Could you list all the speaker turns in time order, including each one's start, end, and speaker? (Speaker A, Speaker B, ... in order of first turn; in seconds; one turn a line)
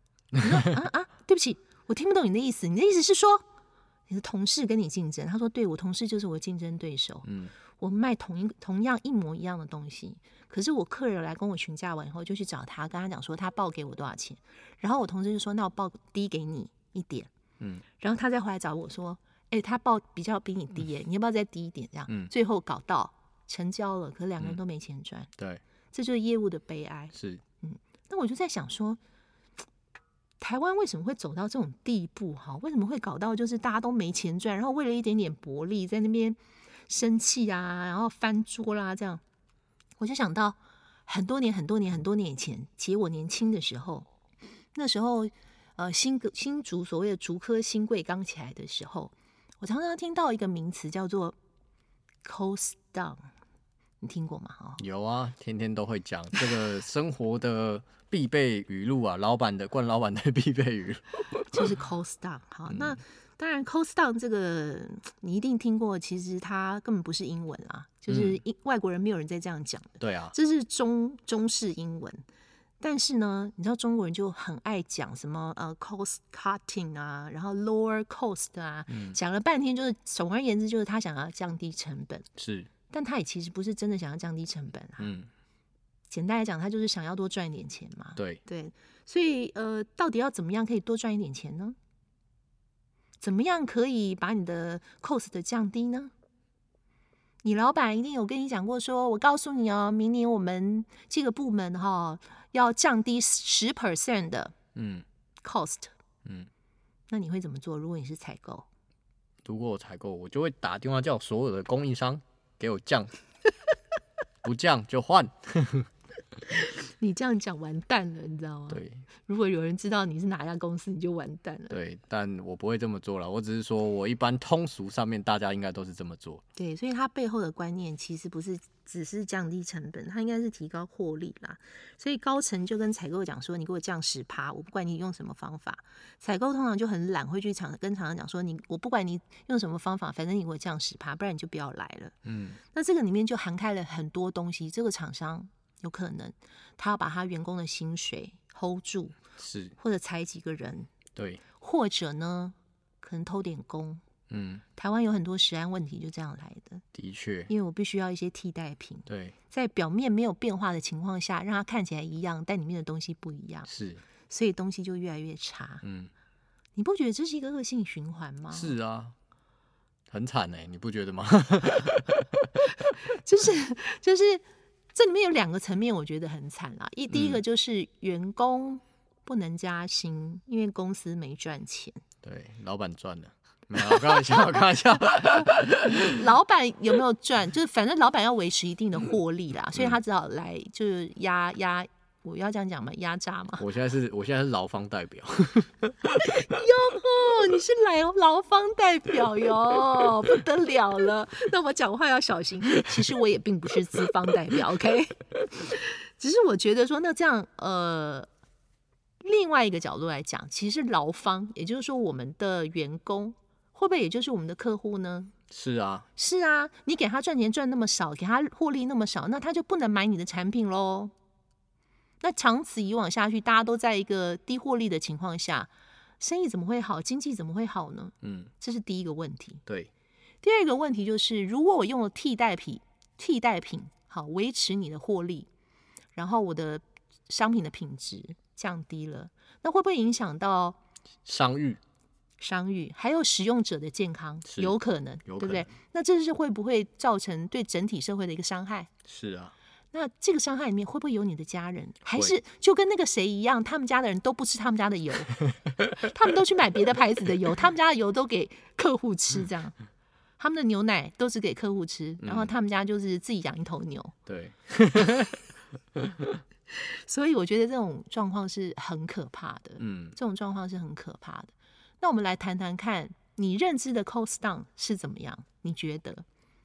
Speaker A: 0.4-3.4
Speaker A: 4.1-7.3
Speaker B: 7.2-7.5
Speaker A: 7.8-17.3
Speaker A: 18.0-25.3
Speaker A: 25.9-29.0
Speaker B: 27.1-27.4
Speaker A: 30.4-39.2
Speaker A: 40.0-44.1
Speaker A: 44.7-51.4
Speaker A: 52.2-53.3
Speaker A: 54.0-54.8
Speaker B: 54.8-61.7
Speaker A: 61.5-72.2
Speaker B: 62.7-63.0
Speaker B: 68.1-68.4
Speaker B: 70.0-70.3
Speaker A: 72.8-82.3
Speaker B: 78.9-79.2
Speaker B: 82.4-82.7
Speaker A: 82.9-85.1
Speaker B: 85.0-85.3
Speaker A: 86.1-91.8
Speaker B: 88.2-88.4
Speaker A: 93.2-96.1
Speaker A: 97.4-104.5
Speaker B: 104.7-105.0
Speaker A: 105.4-105.9
Speaker A: 107.1-108.7
Speaker B: 109.4-113.1
Speaker B: 114.4-115.9
Speaker A: 116.6-121.8
Speaker B: 118.7-119.0
Speaker B: 121.7-126.4
Speaker A: 126.5-142.2
Speaker B: 142.2-142.6
Speaker A: 142.7-149.2
Speaker B: 149.4-149.8
Speaker A: 149.8-150.9
Speaker B: 151.2-151.4
Speaker A: 151.6-154.0
Speaker B: 154.3-154.6
Speaker A: 154.8-156.8
Speaker B: 156.9-157.5
Speaker A: 157.5-163.7
Speaker B: 159.1-159.3
Speaker B: 163.7-164.0
Speaker A: 164.3-165.8
Speaker B: 165.8-166.1
Speaker A: 166.8-168.7
Speaker B: 168.5-169.2
Speaker B: 170.1-172.6
Speaker A: 173.0-182.0
Speaker B: 177.1-177.4
Speaker B: 182.2-186.1
Speaker A: 183.8-184.4
Speaker A: 185.9-193.7
Speaker B: 193.6-196.4
Speaker A: 196.2-208.3
Speaker A: 209.2-215.3
Speaker B: 215.5-216.1
Speaker A: 216.2-221.1
Speaker A: 222.2-229.6
Speaker B: 228.2-228.5
Speaker A: 230.4-235.5
Speaker A: 236.2-240.8
Speaker B: 241.2-241.8
Speaker A: 242.4-248.9
Speaker B: 244.5-245.7
Speaker B: 249.1-249.5
Speaker A: 249.9-255.4
Speaker A: 255.9-259.8
Speaker A: 260.4-264.1
Speaker B: 262.2-262.5
Speaker B: 264.2-266.4
Speaker A: 266.8-276.2
Speaker B: 269.8-270.1